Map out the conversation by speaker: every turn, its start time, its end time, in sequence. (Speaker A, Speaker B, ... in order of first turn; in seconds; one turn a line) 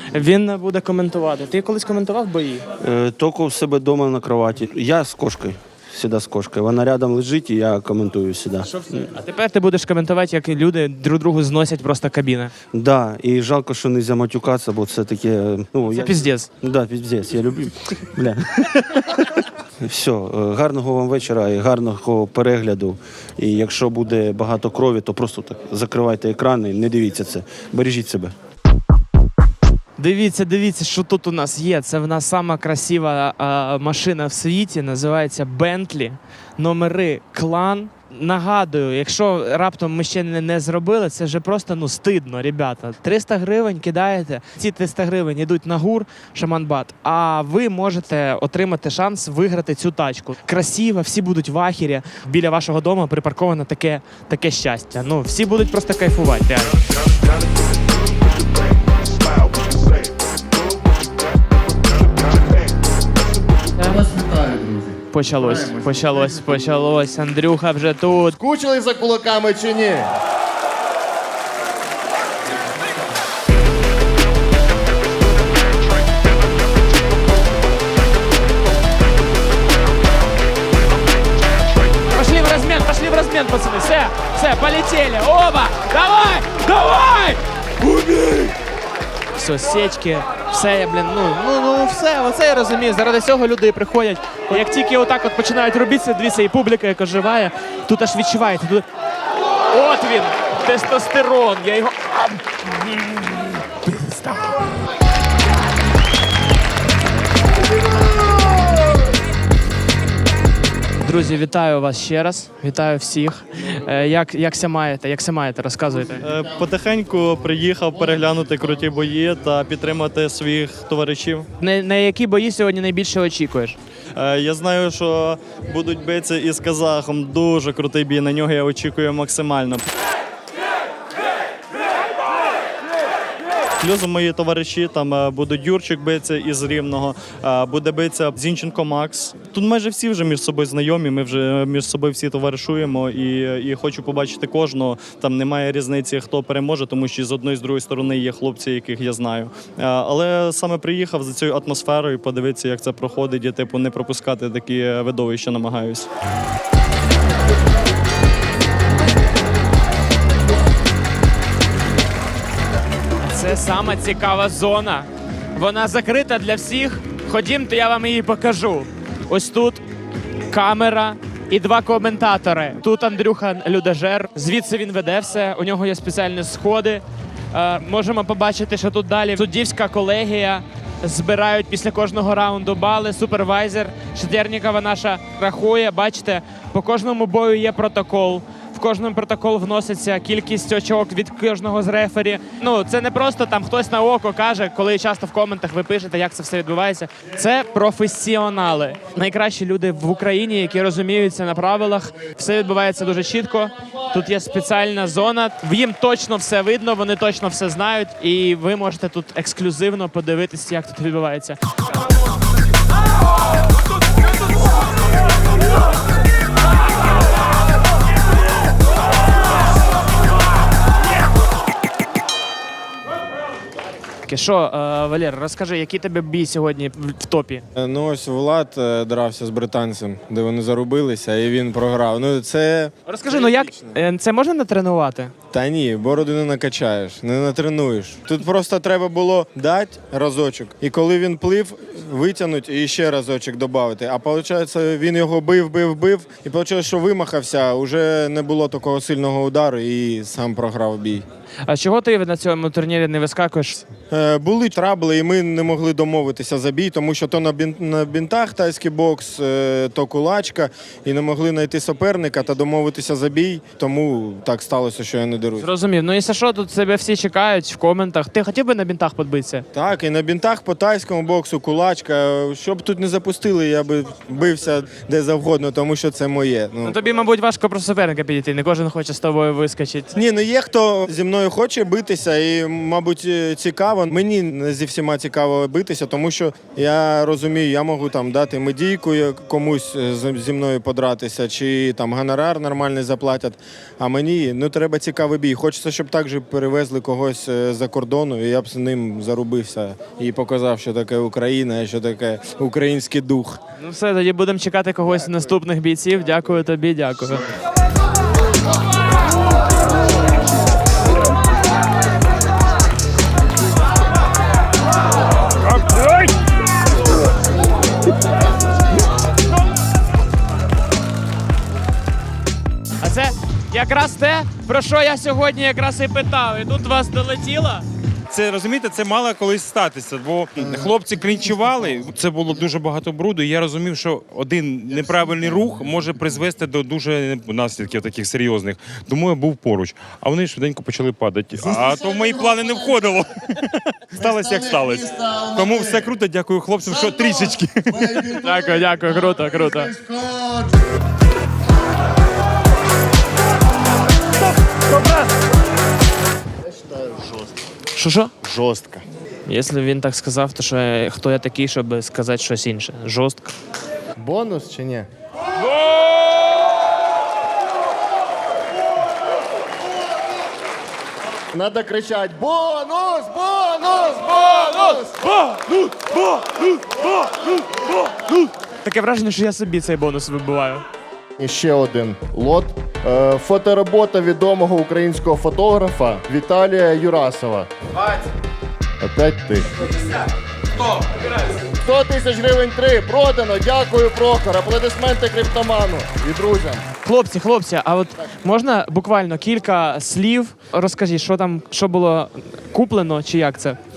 Speaker A: 0.1-2.6
Speaker B: 2.8-9.1
Speaker A: 8.7-12.5
Speaker B: 12.7-19.0
Speaker A: 15.9-16.5
Speaker B: 19.8-28.3
Speaker A: 30.0-56.8
Speaker C: 63.8-65.0
Speaker A: 65.1-68.4
Speaker C: 68.4-70.1
Speaker A: 82.1-88.5
Speaker A: 89.3-98.8
Speaker A: 99.7-104.7
Speaker A: 111.0-116.3
Speaker D: 116.2-121.5
Speaker A: 121.6-123.8
Speaker D: 124.1-129.9
Speaker D: 133.8-156.1
Speaker A: 163.2-169.8
Speaker A: 170.5-211.6
Speaker A: 224.2-227.6
Speaker E: 227.8-233.6
Speaker A: 233.1-235.3
Speaker E: 235.5-251.2
Speaker A: 251.7-253.8
Speaker E: 254.1-265.6
Speaker A: 265.6-269.6
Speaker E: 269.7-276.9
Speaker A: 276.9-280.1
Speaker E: 280.1-303.6
Speaker A: 303.8-307.4
Speaker A: 323.0-327.9
Speaker F: 328.3-348.4
Speaker A: 348.3-349.9
Speaker C: 349.9-350.7
Speaker A: 357.9-358.3
Speaker C: 358.4-359.0
Speaker A: 359.5-363.5
Speaker C: 364.2-365.1
Speaker A: 365.6-366.1
Speaker C: 371.5-375.1
Speaker A: 374.5-376.7
Speaker A: 378.1-380.8
Speaker C: 381.4-387.7
Speaker C: 389.0-389.8
Speaker C: 391.8-396.8
Speaker A: 397.0-403.8